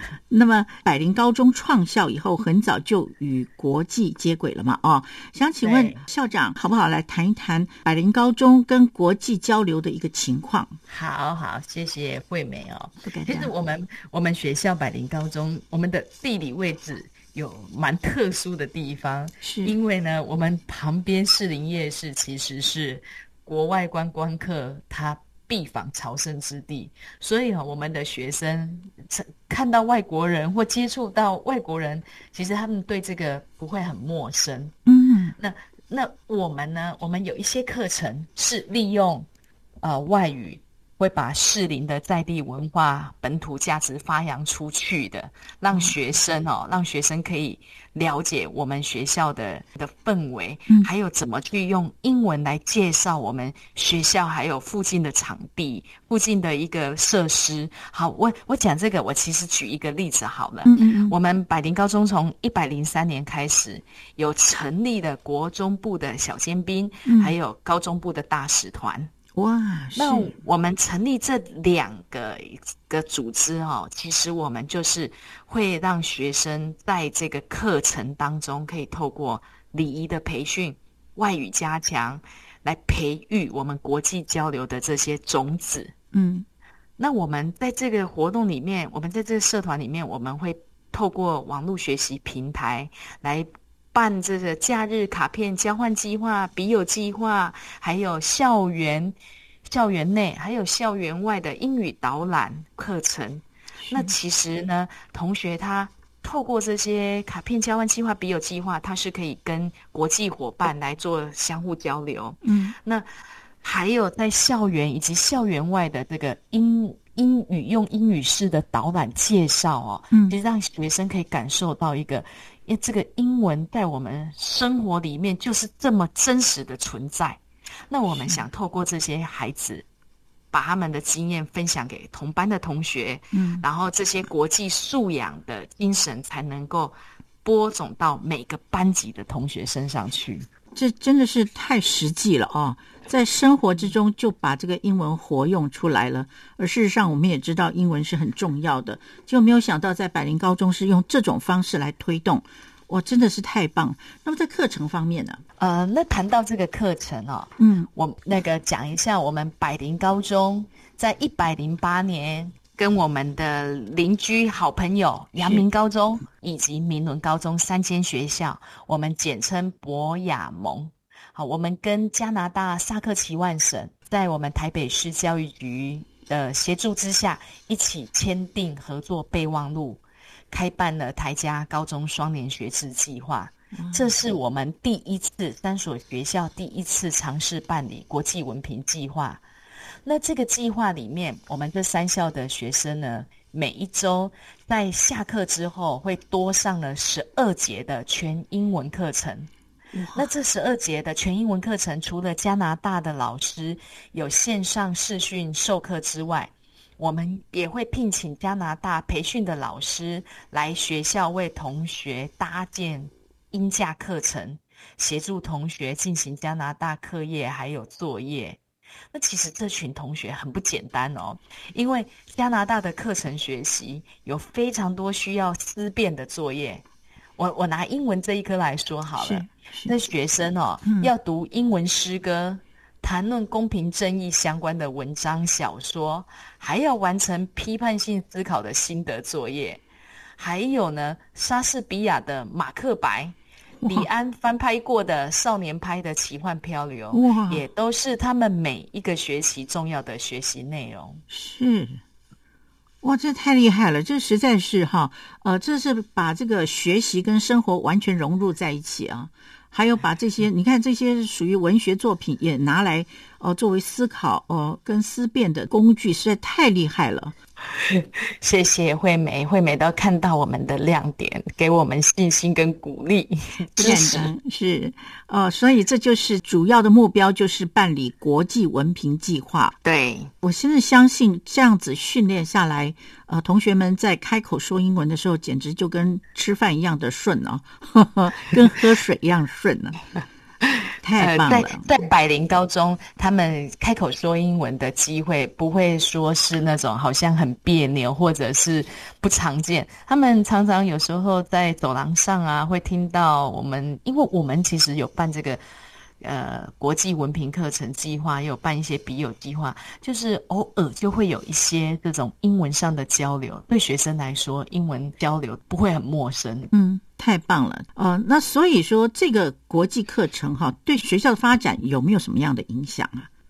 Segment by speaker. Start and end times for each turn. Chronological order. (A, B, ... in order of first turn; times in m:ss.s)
0:00.3-0:10.8 A
0:05.6-0:06.0 B
0:10.9-0:34.8 B
0:13.0-0:13.5 A
0:19.4-0:19.7 A
0:34.9-0:35.4 A
0:35.4-0:39.3 B
0:39.8-1:09.1 B
1:00.6-1:01.2 A
1:07.1-1:07.4 A
1:09.4-1:10.4 A
1:10.0-1:25.9 B
1:26.1-1:26.5 A
1:27.0-1:53.0 B
1:43.8-1:44.2 A
1:52.4-1:52.8 A
1:53.6-2:09.8 B
2:08.1-2:08.4 A
2:10.5-2:20.5 B
2:13.3-2:13.6 A
2:20.8-2:35.4 A
2:35.6-3:00.0 B
2:37.6-2:37.9 A
2:45.4-2:45.6 A
3:00.5-3:09.4 B
3:03.7-3:04.1 A
3:10.0-3:19.5 B
3:19.9-3:20.3 A
3:20.1-3:38.6 B
3:39.1-3:46.8 B
3:47.4-3:59.8 B
3:49.2-3:50.0 A
3:50.8-3:51.1 A
4:00.4-4:11.2 B
4:07.1-4:07.6 A
4:11.3-4:12.0 A
4:13.0-4:27.4 A
4:27.7-4:34.3 B
4:33.8-4:39.8 A
4:39.8-4:40.3 B
4:40.4-4:50.0 A
4:51.0-4:51.9 A
4:51.2-5:05.6 B
5:06.2-5:16.7 B
5:16.7-5:23.3 A